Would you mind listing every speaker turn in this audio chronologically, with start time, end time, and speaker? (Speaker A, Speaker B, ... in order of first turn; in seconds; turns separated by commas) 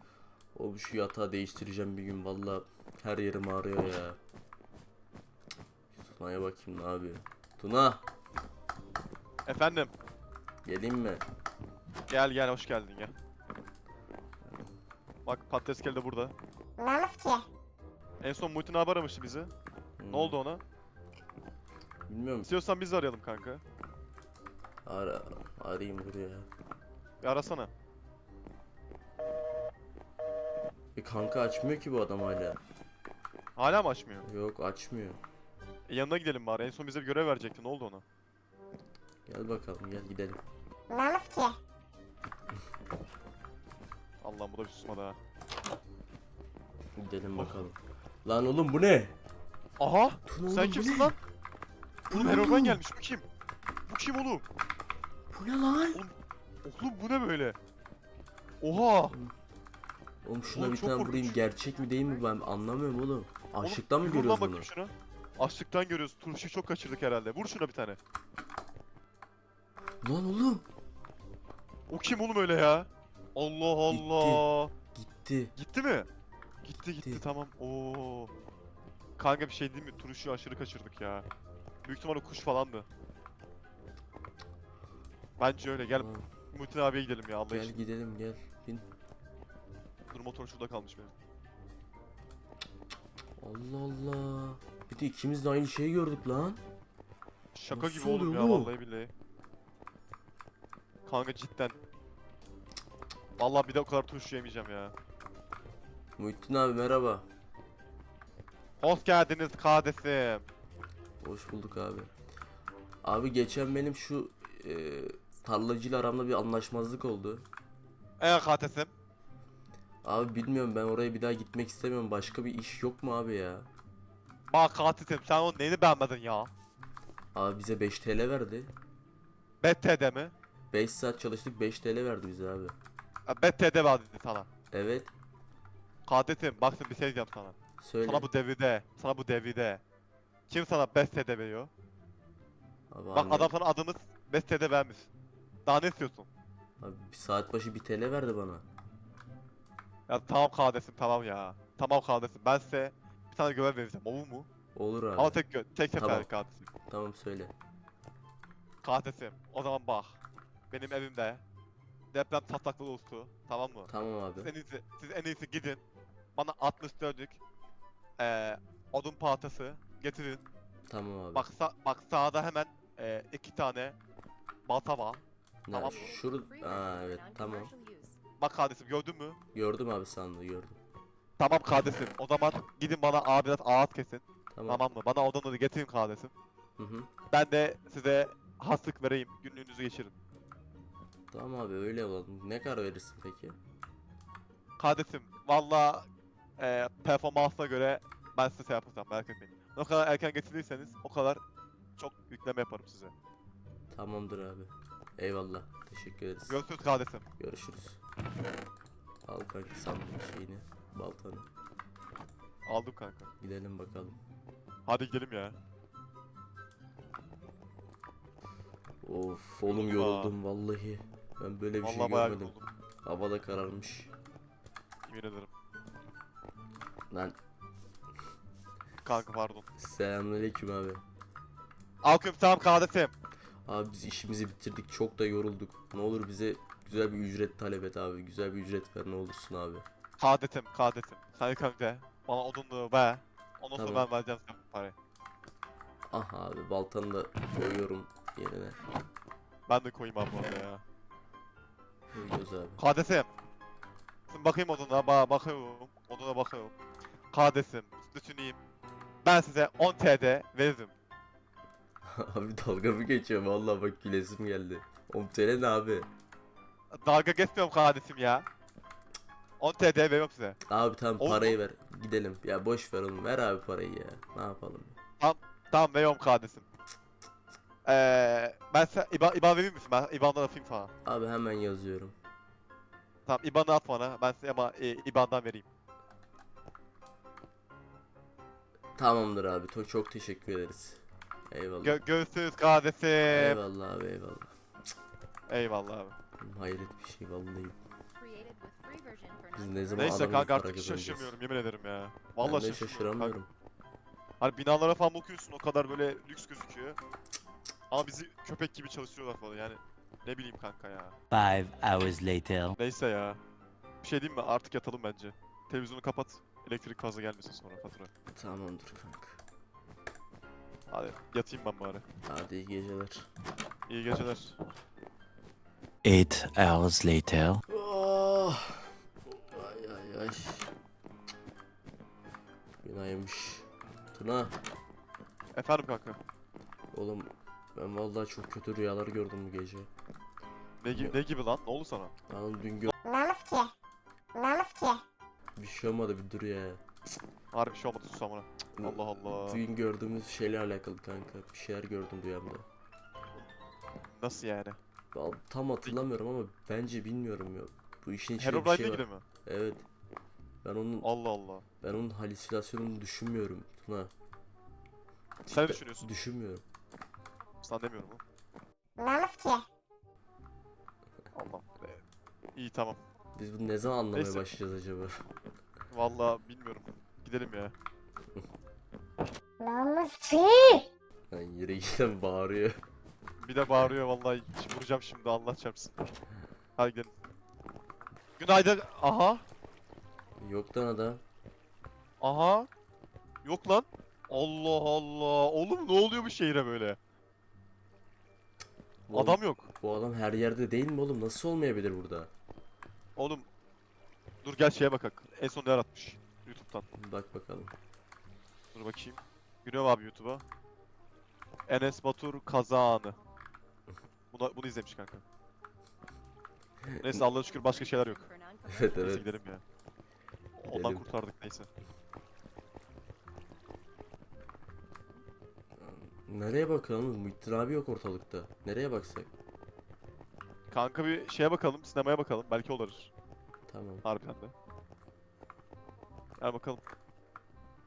Speaker A: 0.5-4.2, Speaker A: 5.9-8.0, Speaker B: 9.4-9.9, Speaker A: 10.6-11.2, Speaker B: 12.1-13.1, Speaker A: 14.4-14.7, Speaker B: 15.2-16.3, Speaker C: 16.8-17.4, Speaker B: 18.2-19.5, Speaker A: 20.0-20.4, Speaker B: 20.1-20.6, Speaker A: 22.1-22.5, Speaker B: 22.4-23.6, Speaker A: 24.8-26.5, Speaker B: 27.2-27.7, Speaker A: 30.9-32.6, Speaker B: 33.5-34.2, Speaker A: 34.2-35.2, Speaker B: 35.9-38.0, Speaker A: 39.2-40.4, Speaker B: 44.2-45.2, Speaker A: 47.0-49.1, Speaker B: 47.4-47.6, Speaker B: 49.8-51.2, Speaker A: 50.2-51.2, Speaker A: 52.1-52.8, Speaker B: 52.1-53.2, Speaker B: 53.9-54.4, Speaker A: 55.3-56.0, Speaker B: 55.9-57.6, Speaker B: 58.6-59.1, Speaker A: 59.1-59.3, Speaker A: 60.2-64.7, Speaker B: 60.5-61.4, Speaker D: 61.3-62.6, Speaker B: 63.6-68.0, Speaker A: 70.0-70.6, Speaker B: 71.9-74.7, Speaker A: 73.9-75.5, Speaker B: 75.5-76.1, Speaker B: 76.6-78.3, Speaker A: 77.0-77.2, Speaker B: 79.2-81.3, Speaker B: 81.8-82.9, Speaker B: 85.4-87.8, Speaker A: 85.9-86.3, Speaker A: 87.5-88.9, Speaker B: 90.1-91.1, Speaker A: 93.4-96.6, Speaker B: 97.5-99.1, Speaker A: 97.7-98.7, Speaker B: 101.0-101.8, Speaker B: 103.4-104.9, Speaker A: 106.2-107.2, Speaker B: 108.8-110.5, Speaker A: 111.2-112.1, Speaker A: 113.0-117.5, Speaker B: 118.2-118.9, Speaker A: 120.0-123.7, Speaker B: 124.5-126.5, Speaker A: 127.3-128.7, Speaker B: 129.6-130.3, Speaker A: 130.7-132.7, Speaker B: 133.3-134.5, Speaker A: 134.7-135.1, Speaker B: 136.1-139.8, Speaker A: 137.8-138.3, Speaker B: 140.5-141.7, Speaker A: 142.9-143.5, Speaker B: 143.1-145.1, Speaker B: 145.7-146.3, Speaker A: 146.8-148.6, Speaker B: 150.1-154.5, Speaker A: 154.7-155.4, Speaker B: 155.2-156.7, Speaker A: 155.9-156.3, Speaker A: 156.9-157.5, Speaker B: 158.8-160.2, Speaker B: 160.7-161.4, Speaker B: 162.1-165.8, Speaker A: 163.9-164.5, Speaker B: 166.3-167.4, Speaker B: 168.2-170.4, Speaker A: 170.9-171.5, Speaker B: 171.3-174.0, Speaker B: 174.7-176.1, Speaker A: 175.7-177.7, Speaker D: 175.8-178.2, Speaker B: 178.4-179.4, Speaker A: 179.5-180.8, Speaker B: 181.4-186.3, Speaker A: 184.5-184.8, Speaker A: 186.8-187.1, Speaker B: 187.3-190.2, Speaker A: 191.3-193.6, Speaker B: 194.8-196.1, Speaker B: 196.6-201.4, Speaker B: 202.0-203.1, Speaker A: 203.9-206.6, Speaker B: 206.5-207.2, Speaker A: 207.4-208.0, Speaker A: 209.2-211.5, Speaker B: 212.7-213.3, Speaker A: 213.4-214.2, Speaker B: 214.9-215.6, Speaker A: 219.0-224.1, Speaker B: 219.7-220.4, Speaker B: 221.8-222.7, Speaker B: 225.1-225.5, Speaker A: 227.1-227.3, Speaker B: 229.0-229.7, Speaker A: 229.8-231.0, Speaker B: 232.0-233.1, Speaker A: 233.7-239.8, Speaker B: 240.2-244.9, Speaker A: 243.7-244.1, Speaker A: 246.1-248.8, Speaker B: 249.7-250.8, Speaker A: 252.1-252.8, Speaker B: 252.8-253.3, Speaker B: 254.3-256.7, Speaker B: 257.3-258.6, Speaker B: 259.2-260.9, Speaker A: 262.0-266.1, Speaker B: 266.9-268.4, Speaker B: 269.6-270.6, Speaker A: 270.7-275.0, Speaker B: 271.2-271.6, Speaker B: 275.2-276.6, Speaker B: 277.8-280.9, Speaker A: 281.0-282.1, Speaker B: 283.3-285.7, Speaker A: 288.9-292.0, Speaker B: 291.8-293.6, Speaker A: 293.3-294.5, Speaker B: 295.5-296.1, Speaker A: 296.4-297.8, Speaker D: 298.2-300.3, Speaker A: 299.6-301.4, Speaker B: 299.9-303.4, Speaker A: 302.4-303.5, Speaker B: 304.4-307.0, Speaker B: 307.9-311.2, Speaker E: 311.3-312.7, Speaker B: 312.7-313.4, Speaker B: 314.0-318.1, Speaker A: 318.3-319.4, Speaker B: 320.9-322.0, Speaker A: 322.2-323.3, Speaker B: 323.9-324.6, Speaker E: 326.0-327.6, Speaker A: 327.7-330.7, Speaker A: 332.8-334.6, Speaker B: 335.5-336.2, Speaker A: 336.9-339.9, Speaker B: 340.8-342.1, Speaker A: 340.9-341.1, Speaker A: 342.3-342.9, Speaker C: 343.1-343.7, Speaker C: 344.4-345.0, Speaker A: 345.6-346.8, Speaker B: 347.5-349.6, Speaker A: 348.8-352.6, Speaker B: 354.1-354.8, Speaker A: 355.1-359.8, Speaker B: 358.4-359.2, Speaker A: 360.6-361.1, Speaker B: 361.0-361.6, Speaker A: 361.8-364.1, Speaker A: 365.4-366.6, Speaker B: 365.5-366.1, Speaker B: 367.6-368.2, Speaker C: 369.0-369.6, Speaker B: 371.3-372.0, Speaker B: 372.6-373.0, Speaker A: 373.4-375.2, Speaker B: 374.1-374.5, Speaker B: 375.9-377.7, Speaker C: 379.6-380.9, Speaker A: 381.3-382.7, Speaker B: 383.4-385.9, Speaker B: 386.8-387.1, Speaker B: 388.4-389.4, Speaker A: 390.4-391.2, Speaker B: 392.2-392.7, Speaker B: 393.4-397.0, Speaker A: 399.1-402.3, Speaker B: 399.1-399.7, Speaker B: 403.1-403.5, Speaker B: 404.4-406.9, Speaker A: 407.0-407.7, Speaker B: 408.7-410.4, Speaker B: 411.7-413.2, Speaker B: 414.3-415.2, Speaker A: 416.9-417.2, Speaker B: 417.0-418.3, Speaker D: 417.1-419.4, Speaker A: 418.7-419.2, Speaker B: 418.9-419.6, Speaker B: 420.6-421.7, Speaker A: 420.7-421.1, Speaker A: 425.8-429.3, Speaker B: 430.7-433.1, Speaker A: 433.7-434.0, Speaker B: 434.0-434.5, Speaker B: 436.4-436.8